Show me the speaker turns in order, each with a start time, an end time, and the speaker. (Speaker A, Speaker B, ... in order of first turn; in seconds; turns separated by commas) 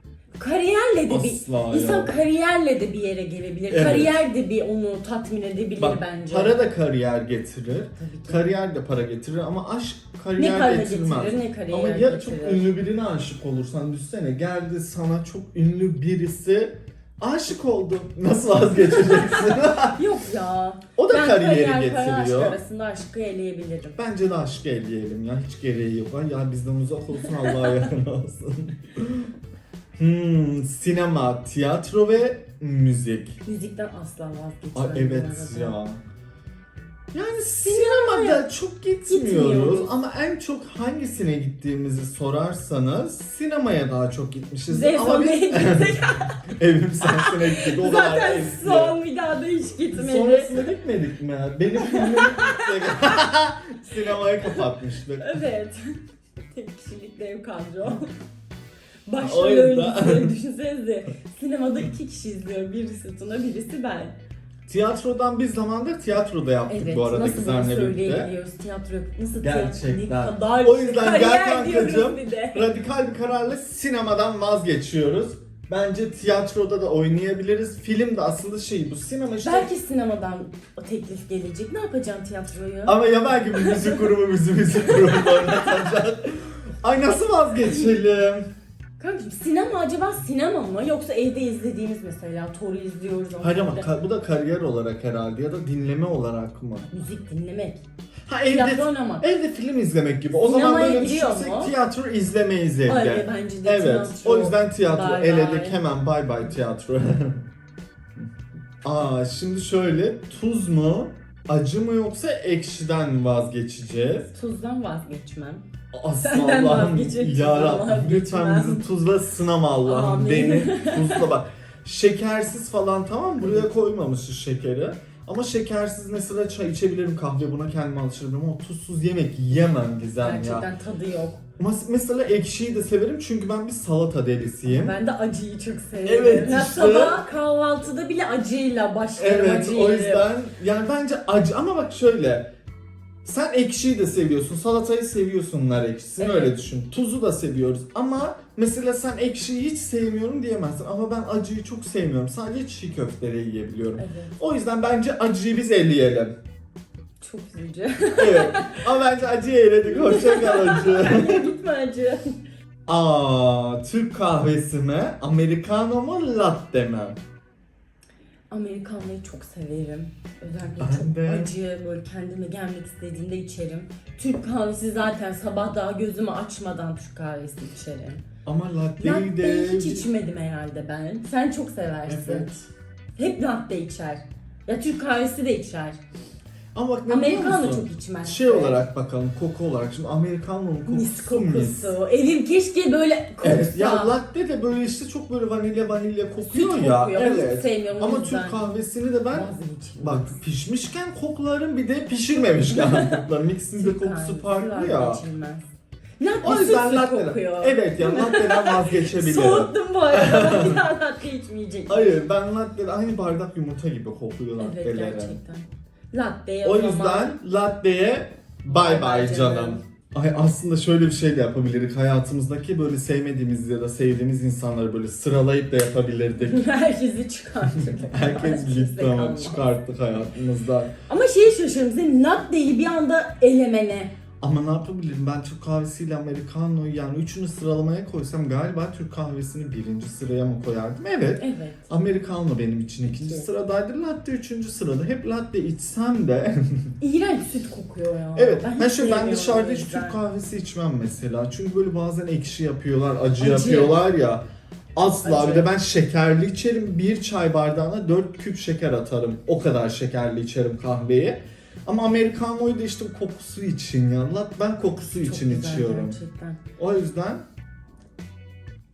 Speaker A: 0.4-6.6, Speaker B: 1.1-2.1, Speaker B: 3.7-4.2, Speaker B: 5.8-20.0, Speaker A: 8.0-8.5, Speaker A: 10.4-12.7, Speaker A: 18.9-24.0, Speaker B: 21.0-22.6, Speaker B: 24.0-29.3, Speaker A: 27.4-27.8, Speaker B: 30.0-33.4, Speaker A: 33.5-35.8, Speaker B: 34.8-36.0, Speaker B: 37.1-49.0, Speaker A: 37.6-38.5, Speaker A: 39.1-39.9, Speaker A: 44.7-46.4, Speaker A: 47.0-50.7, Speaker B: 49.9-55.4, Speaker A: 51.8-53.2, Speaker A: 55.2-56.0, Speaker A: 56.5-58.1, Speaker A: 59.1-64.2, Speaker B: 59.2-60.3, Speaker B: 64.7-68.3, Speaker A: 66.7-72.7, Speaker B: 69.4-79.7, Speaker A: 79.4-84.1, Speaker B: 82.9-88.5, Speaker A: 84.9-85.8, Speaker A: 89.0-93.9, Speaker B: 93.4-96.9, Speaker A: 96.9-97.8, Speaker B: 98.3-107.5, Speaker A: 98.5-99.3, Speaker A: 100.3-101.7, Speaker A: 102.9-105.8, Speaker B: 108.8-114.3, Speaker A: 114.3-115.7, Speaker B: 115.9-130.7, Speaker A: 116.2-118.9, Speaker A: 119.8-121.3, Speaker A: 123.4-123.7, Speaker A: 130.2-131.4, Speaker B: 131.6-135.0, Speaker A: 134.6-140.3, Speaker B: 136.1-137.2, Speaker B: 139.2-142.5, Speaker B: 143.2-156.3, Speaker A: 146.2-146.6, Speaker A: 154.0-154.3, Speaker A: 157.2-158.9, Speaker B: 158.2-161.5, Speaker A: 159.9-162.3, Speaker B: 162.9-167.2, Speaker A: 168.5-178.2, Speaker B: 170.8-171.5, Speaker B: 178.5-180.1, Speaker A: 179.0-182.5, Speaker B: 182.1-182.7, Speaker A: 183.2-186.0, Speaker B: 186.8-191.9, Speaker A: 187.1-188.8, Speaker A: 190.9-194.2, Speaker B: 193.4-199.5, Speaker A: 196.4-198.6, Speaker A: 199.3-200.4, Speaker B: 200.0-205.2, Speaker A: 202.4-203.2, Speaker A: 203.8-212.2, Speaker B: 206.4-210.8, Speaker B: 211.9-215.4, Speaker A: 214.6-217.4, Speaker B: 216.6-226.6, Speaker A: 218.7-219.8, Speaker A: 226.4-229.7, Speaker B: 227.8-230.9, Speaker A: 231.1-234.1, Speaker B: 234.4-246.9, Speaker A: 241.4-241.8, Speaker A: 243.1-243.5, Speaker A: 247.0-250.2, Speaker B: 248.4-254.4, Speaker A: 253.4-254.0, Speaker B: 255.0-266.2, Speaker A: 255.2-255.8, Speaker A: 265.0-266.6, Speaker B: 266.8-267.4